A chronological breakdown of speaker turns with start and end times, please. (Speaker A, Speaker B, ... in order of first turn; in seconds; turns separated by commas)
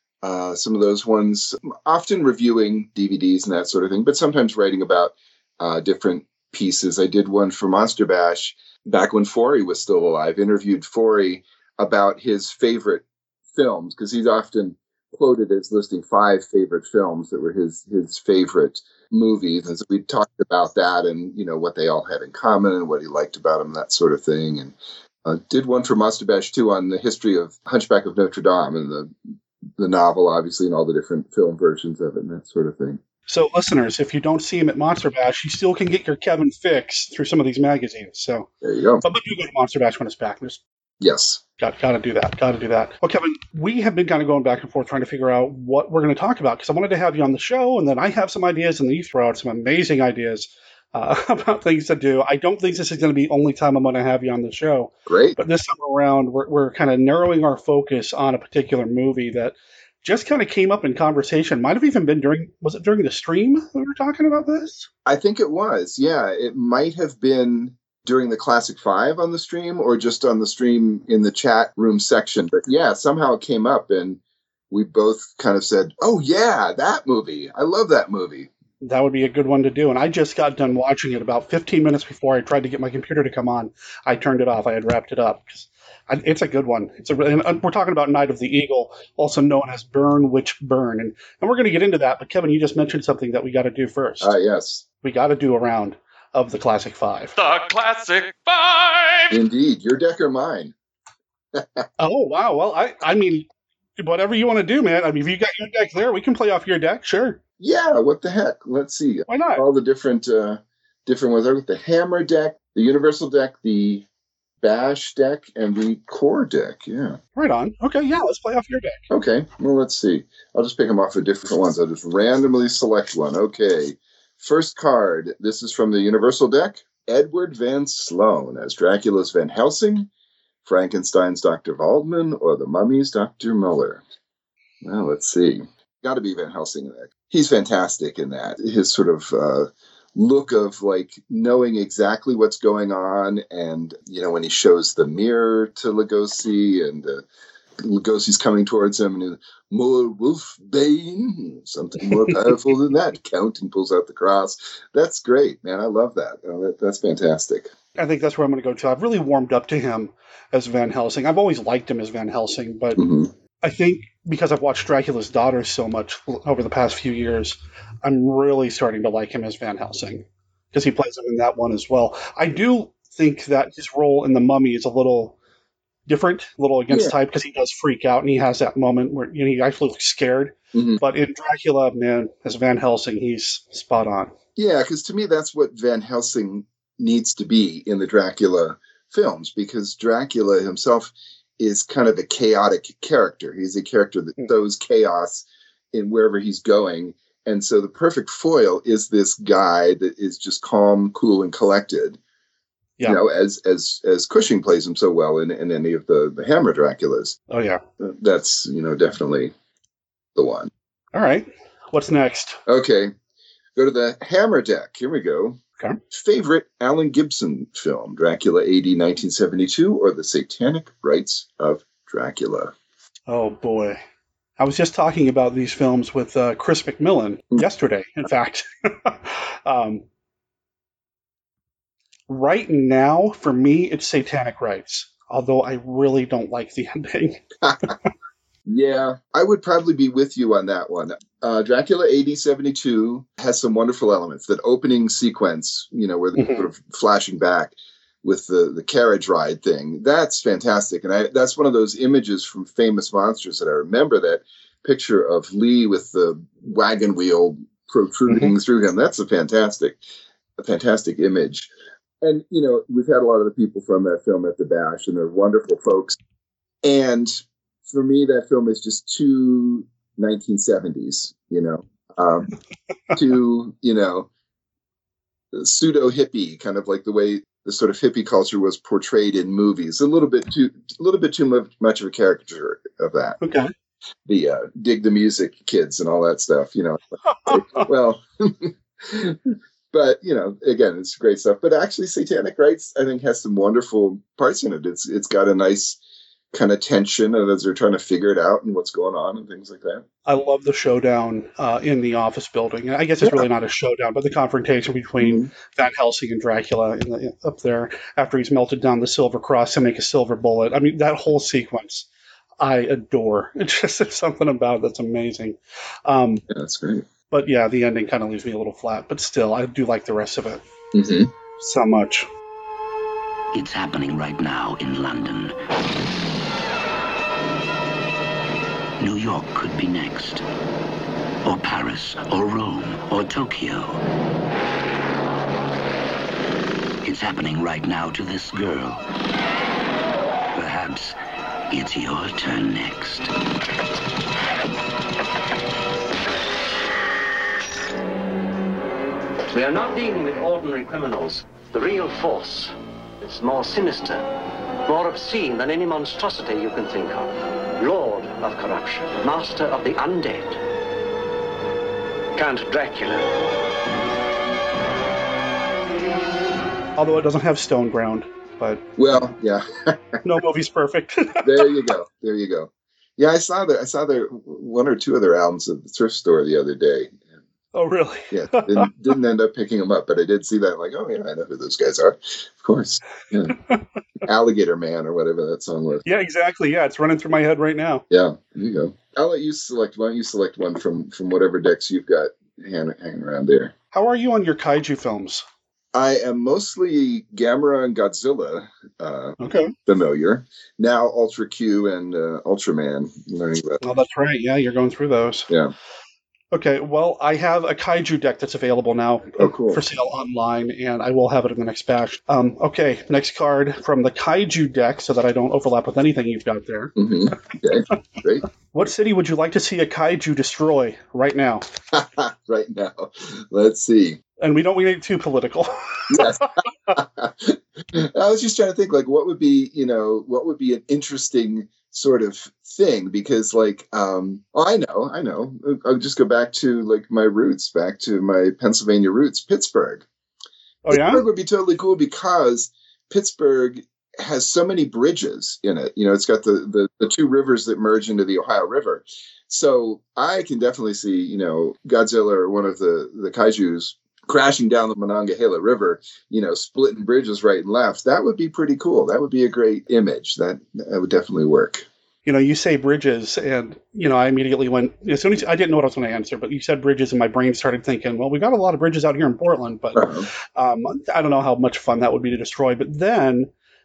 Speaker A: 0.2-29.1, Speaker A: 29.8-33.0, Speaker B: 33.3-38.5, Speaker A: 38.6-39.0, Speaker B: 39.0-40.6, Speaker A: 41.0-41.4, Speaker B: 41.6-64.9, Speaker A: 55.1-55.4, Speaker A: 65.0-74.2, Speaker A: 74.7-78.5, Speaker B: 78.8-94.3, Speaker A: 94.2-94.8, Speaker B: 95.0-97.3, Speaker C: 97.4-99.4, Speaker A: 99.3-100.7, Speaker A: 101.5-101.8, Speaker B: 102.0-103.5, Speaker B: 104.0-107.4, Speaker A: 107.6-114.0, Speaker B: 109.3-109.6, Speaker A: 114.6-117.2, Speaker B: 117.3-119.0, Speaker A: 119.1-130.1, Speaker A: 130.6-134.0, Speaker A: 134.8-147.2, Speaker A: 147.8-157.7, Speaker B: 152.1-152.3, Speaker B: 157.9-163.0, Speaker A: 162.9-163.3, Speaker B: 163.6-175.4, Speaker B: 176.1-184.3, Speaker A: 180.7-181.0, Speaker A: 184.6-202.2, Speaker A: 203.0-207.4, Speaker B: 207.5-207.8, Speaker A: 208.0-209.5, Speaker A: 210.3-210.7, Speaker B: 211.1-212.6, Speaker A: 212.7-213.1, Speaker A: 213.8-215.6, Speaker A: 216.1-222.7, Speaker B: 223.3-224.0, Speaker B: 224.6-230.0, Speaker B: 232.3-237.4, Speaker A: 237.6-237.9, Speaker A: 238.7-260.0, Speaker B: 246.3-246.7, Speaker B: 258.3-258.5, Speaker A: 260.6-261.7, Speaker A: 262.2-266.2, Speaker A: 266.8-272.5, Speaker A: 273.1-274.3, Speaker A: 275.5-283.4, Speaker B: 283.4-283.7, Speaker A: 284.3-289.4, Speaker B: 287.4-287.8, Speaker A: 289.9-296.0, Speaker A: 296.5-300.0, Speaker B: 300.2-312.1, Speaker A: 305.2-305.5, Speaker B: 312.6-316.4, Speaker A: 316.5-317.0, Speaker B: 317.3-320.6, Speaker A: 320.9-321.3, Speaker B: 321.6-322.3, Speaker D: 323.5-325.6, Speaker D: 329.0-330.4, Speaker D: 331.4-334.0, Speaker D: 337.0-339.0, Speaker D: 340.5-341.1, Speaker D: 341.7-343.3, Speaker E: 349.5-354.3, Speaker E: 354.9-360.6, Speaker E: 362.3-363.4, Speaker B: 367.0-368.8, Speaker A: 369.0-370.0, Speaker B: 370.2-371.6, Speaker A: 371.4-377.2, Speaker B: 377.7-378.9, Speaker A: 378.3-383.6, Speaker A: 384.2-386.0, Speaker B: 386.0-388.0, Speaker A: 388.1-393.7, Speaker B: 393.9-395.4, Speaker A: 395.9-403.8, Speaker B: 399.4-399.7, Speaker B: 403.8-405.5, Speaker B: 406.5-416.9, Speaker A: 409.4-409.8, Speaker A: 417.0-418.4, Speaker B: 418.7-421.6, Speaker A: 421.9-424.2, Speaker B: 424.4-426.3, Speaker A: 426.1-440.0, Speaker B: 440.8-441.2, Speaker A: 440.9-461.9, Speaker B: 462.2-473.5, Speaker A: 469.9-470.2